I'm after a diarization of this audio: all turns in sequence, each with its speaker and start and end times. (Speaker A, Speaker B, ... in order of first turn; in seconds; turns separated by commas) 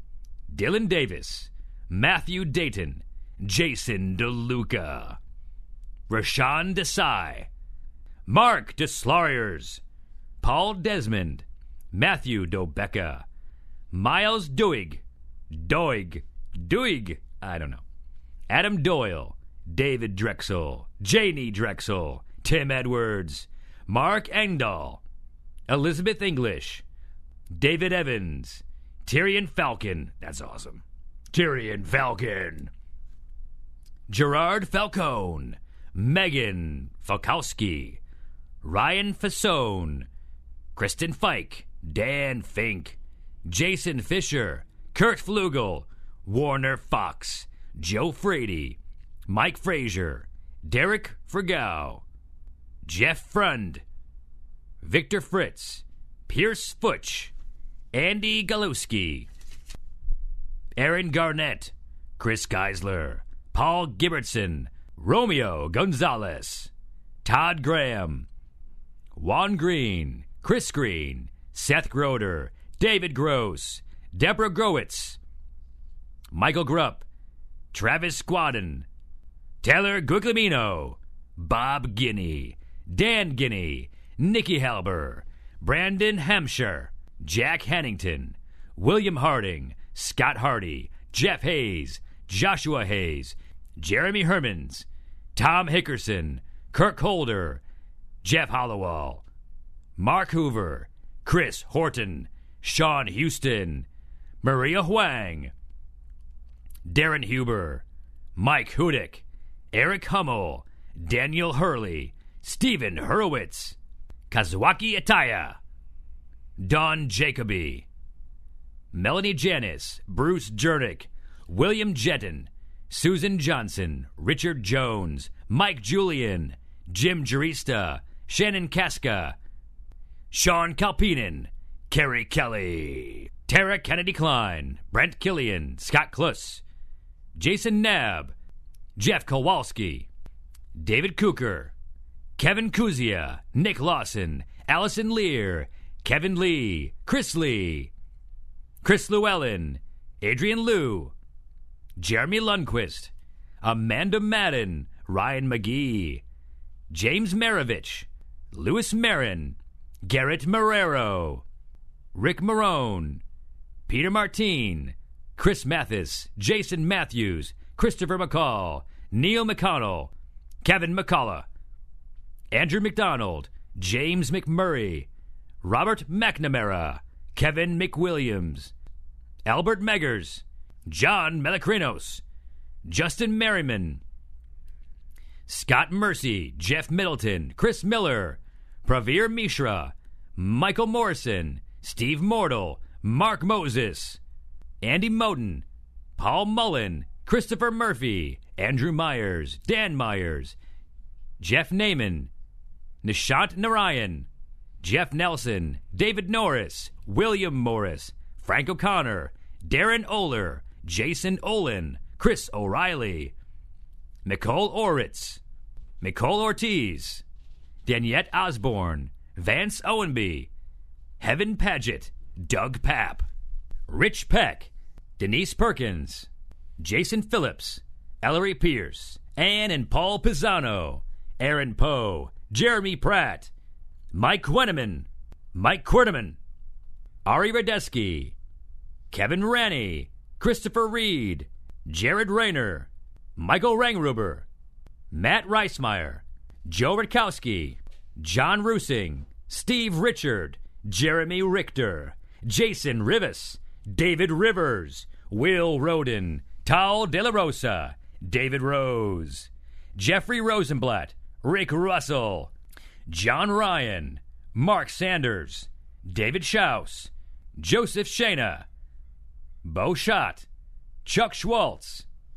Speaker A: 0.5-5.2, Speaker A: 6.1-7.5, Speaker A: 8.3-9.8, Speaker A: 10.4-13.2, Speaker A: 13.9-17.8, Speaker A: 18.5-25.0, Speaker A: 25.7-26.8, Speaker A: 27.5-32.7, Speaker A: 34.1-38.0, Speaker A: 38.6-40.1, Speaker A: 40.7-52.0, Speaker A: 52.9-53.8, Speaker A: 54.8-57.3, Speaker A: 57.9-59.3, Speaker A: 60.8-66.7, Speaker A: 67.2-68.3, Speaker A: 69.1-75.2, Speaker A: 76.3-77.0, Speaker A: 77.7-78.8, Speaker A: 79.6-97.6, Speaker A: 98.2-99.2, Speaker A: 100.0-103.9, Speaker A: 104.4-105.5, Speaker A: 106.8-107.8, Speaker A: 108.3-113.8, Speaker A: 114.3-115.6, Speaker A: 116.6-117.8, Speaker A: 118.9-129.3, Speaker A: 130.3-136.6, Speaker A: 137.3-138.3, Speaker A: 139.0-140.1, Speaker A: 140.7-141.7, Speaker A: 142.4-147.9, Speaker A: 148.8-151.1, Speaker A: 152.0-153.1, Speaker A: 153.6-156.2, Speaker A: 156.9-161.4, Speaker A: 162.1-163.2, Speaker A: 163.9-170.1, Speaker A: 170.6-171.4, Speaker A: 172.5-175.1, Speaker A: 175.6-178.7, Speaker A: 179.4-182.2, Speaker A: 182.8-184.0, Speaker A: 185.5-194.2, Speaker A: 194.8-195.6, Speaker A: 196.2-200.6, Speaker A: 201.4-202.3, Speaker A: 203.0-204.3, Speaker A: 204.8-213.3, Speaker A: 214.2-215.4, Speaker A: 216.0-217.2, Speaker A: 217.8-220.5, Speaker A: 221.2-223.2, Speaker A: 223.9-226.3, Speaker A: 226.8-233.5, Speaker A: 234.1-236.4, Speaker A: 237.2-238.3, Speaker A: 239.1-244.4, Speaker A: 245.1-262.5, Speaker A: 263.1-268.6, Speaker A: 269.6-270.4, Speaker A: 271.0-272.0